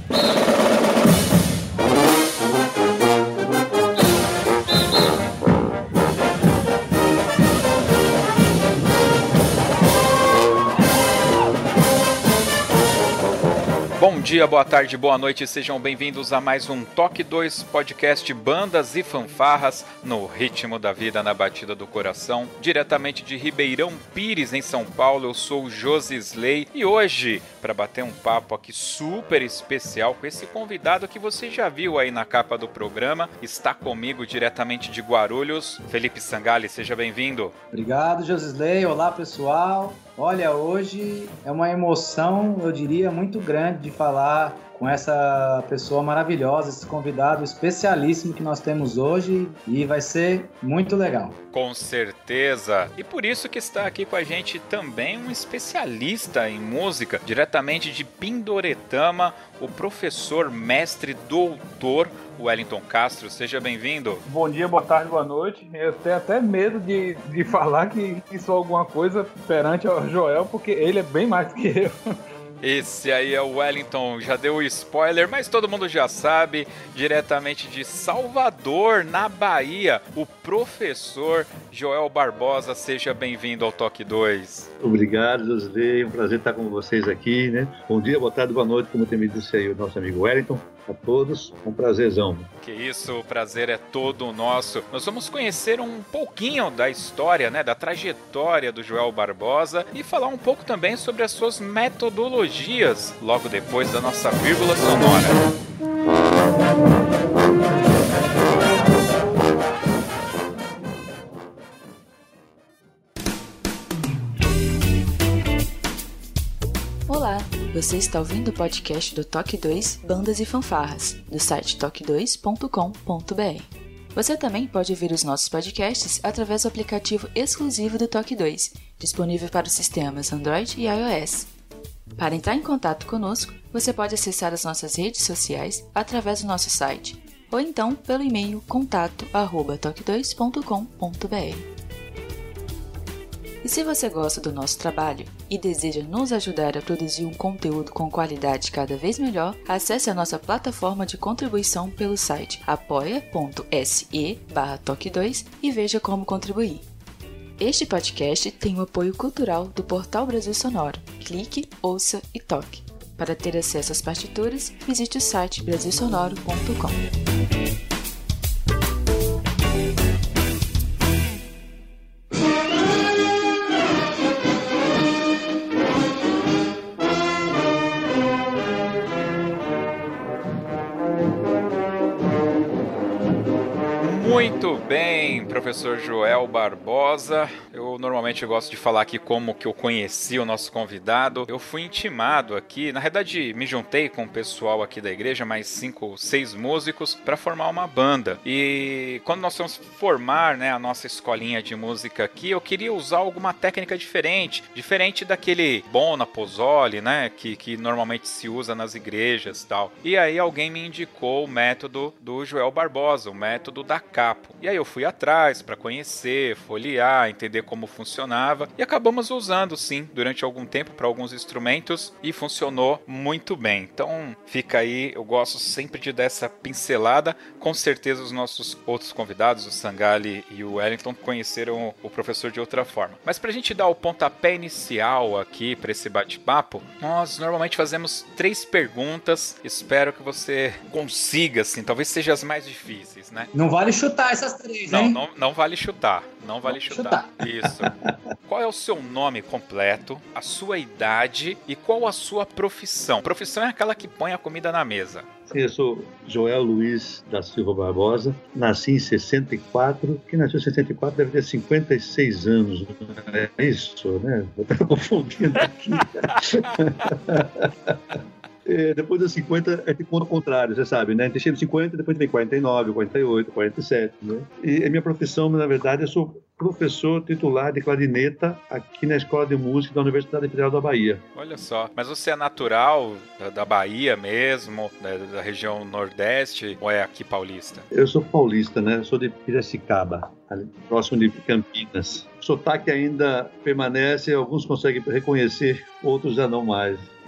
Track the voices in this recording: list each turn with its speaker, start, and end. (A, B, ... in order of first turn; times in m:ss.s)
0:14.0-0:37.5 A
0:37.7-0:51.4 B
0:51.5-1:04.2 A
1:04.2-1:12.0 C
1:12.6-1:24.7 A
1:24.8-1:32.5 D
1:32.6-1:45.4 A
1:57.1-2:11.5 E
2:12.2-2:21.7 E
2:23.6-2:36.8 E
2:37.6-2:47.0 E
3:04.0-4:03.5 A
4:03.5-4:05.2 B
4:04.9-4:07.9 A
4:06.7-4:07.3 B
4:08.4-4:15.2 A
4:15.5-4:41.2 D
4:41.4-4:47.8 A
4:47.9-4:57.1 D